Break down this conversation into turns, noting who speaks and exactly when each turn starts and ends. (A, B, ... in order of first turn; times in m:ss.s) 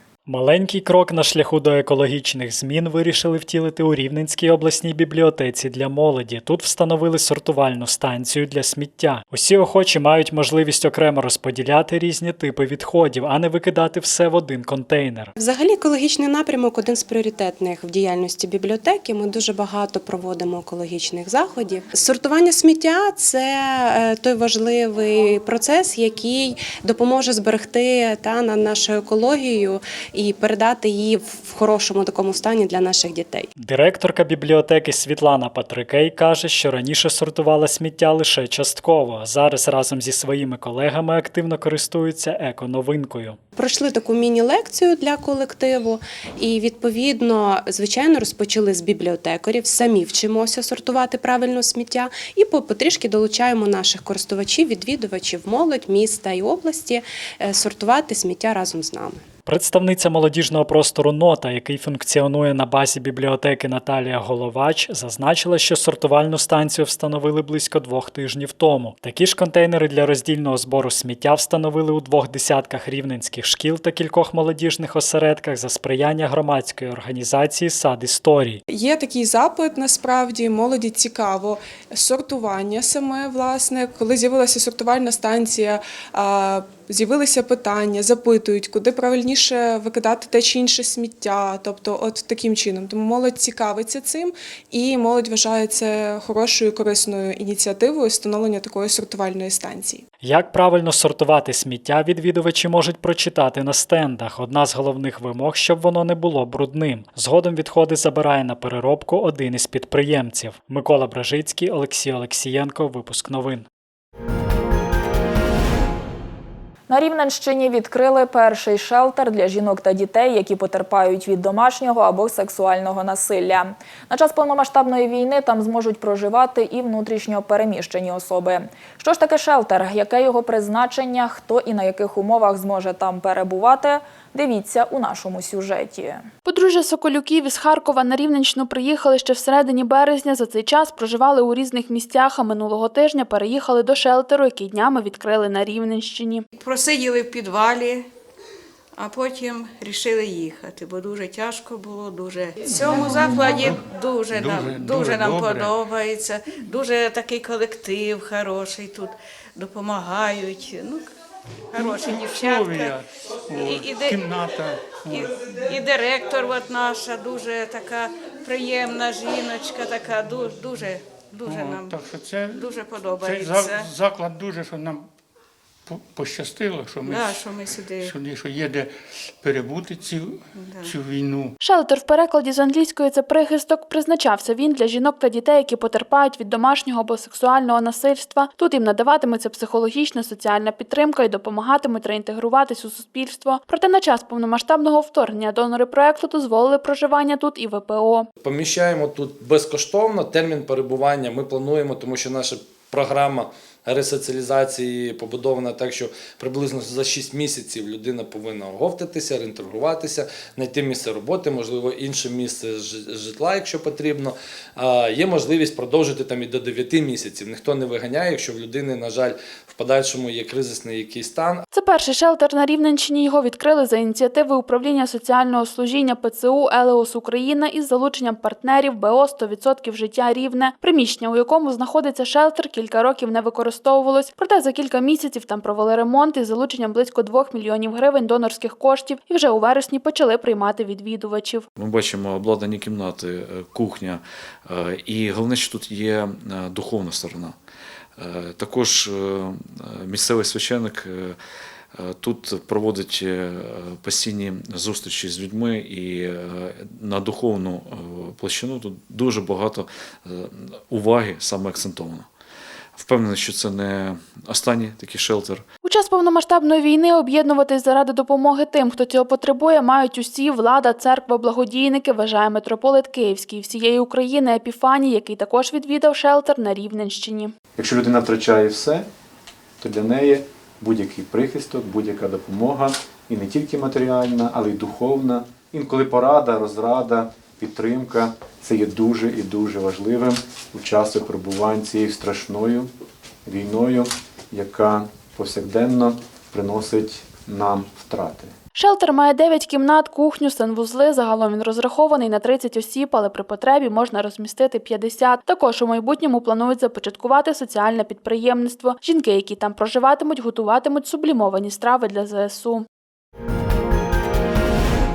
0:00.2-0:15.3 A
0:15.4-0:33.5 B
0:33.6-0:43.4 A
0:43.6-0:59.2 B
0:59.5-1:18.6 A
1:18.7-1:40.0 C
1:40.2-1:53.6 A
1:56.9-2:16.3 D
2:16.4-2:26.4 E
2:26.6-2:28.1 F
2:29.0-2:41.1 F
2:32.7-2:35.8 G
2:41.7-2:43.0 F
2:41.8-2:45.3 G
2:43.5-2:44.3 F
2:45.1-2:52.0 F
2:51.4-2:52.7 G
2:52.5-2:53.9 F
2:53.2-2:55.1 G
2:55.9-3:01.6 G
2:57.0-2:58.1 F
3:00.6-3:00.9 F
3:01.6-3:18.3 E
3:18.4-3:41.6 H
3:41.7-4:01.6 E
4:01.8-4:07.6 I
4:08.2-4:11.4 I
4:12.0-4:22.3 I
4:23.0-4:25.6 I
4:25.8-4:37.5 E
4:37.8-4:39.1 J
4:39.8-4:52.9 J
4:53.5-4:58.5 J
4:58.8-5:12.8 E